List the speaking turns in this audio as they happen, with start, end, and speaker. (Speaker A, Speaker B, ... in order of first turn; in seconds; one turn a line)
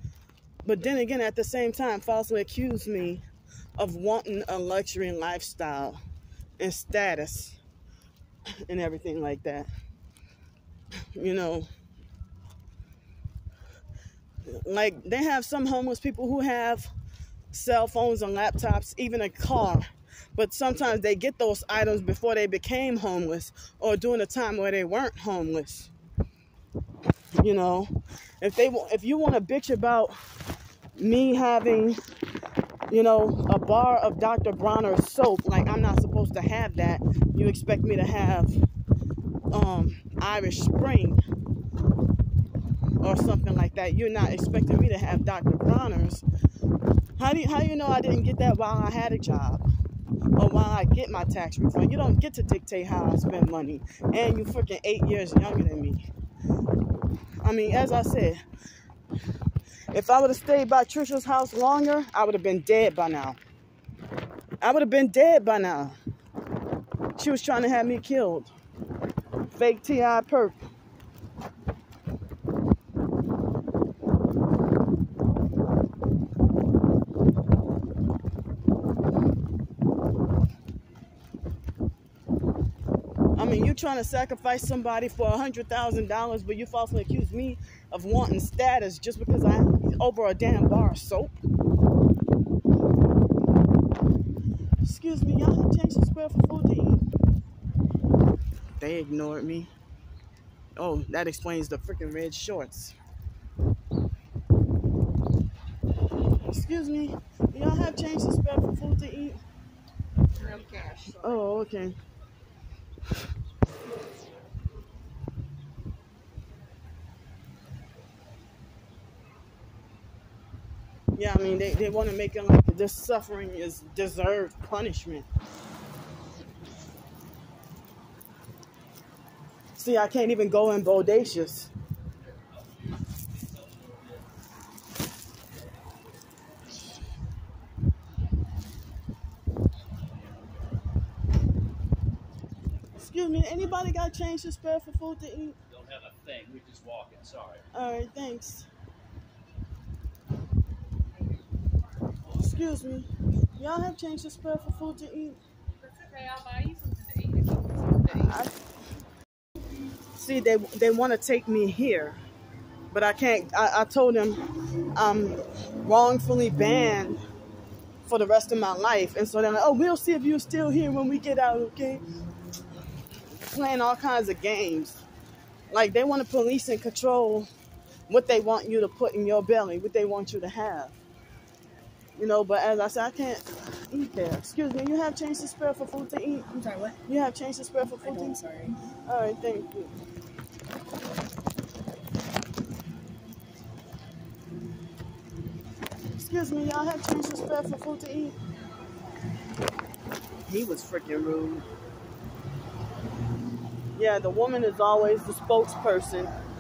Speaker A: 0.6-3.2
Speaker A: 3.8-6.0
Speaker A: 6.6-7.6
Speaker A: 8.6-9.7
Speaker A: 11.1-11.7
Speaker A: 14.4-16.9
Speaker A: 17.5-25.9
Speaker A: 27.3-30.2
Speaker A: 30.9-32.0
Speaker A: 32.9-38.6
Speaker A: 39.5-41.2
Speaker A: 43.0-46.2
Speaker A: 47.2-49.6
Speaker A: 50.4-56.1
Speaker A: 57.4-58.4
Speaker A: 59.9-63.4
Speaker A: 64.6-66.0
Speaker A: 67.2-68.5
Speaker A: 69.5-70.6
Speaker A: 83.4-91.3
Speaker A: 94.8-97.1
Speaker A: 98.8-99.7
Speaker A: 100.8-103.0
Speaker A: 106.4-109.4
Speaker B: 110.4-111.0
Speaker C: 110.4-111.1
Speaker A: 111.1-112.0
Speaker A: 121.2-125.3
Speaker A: 129.8-131.7
Speaker C: 133.6-134.1
Speaker A: 143.0-145.6
Speaker B: 145.7-147.6
Speaker A: 147.7-148.7
Speaker A: 152.3-155.4
Speaker C: 155.8-157.9
Speaker A: 158.1-158.6
Speaker A: 160.2-162.2
Speaker A: 162.9-167.2
Speaker A: 168.1-172.1
Speaker A: 173.4-175.0
Speaker A: 175.7-177.5
Speaker A: 178.1-181.0
Speaker A: 182.2-186.5
Speaker B: 186.6-186.9
Speaker A: 187.0-189.9
Speaker A: 196.2-198.4
Speaker A: 200.5-201.7
Speaker A: 203.9-206.3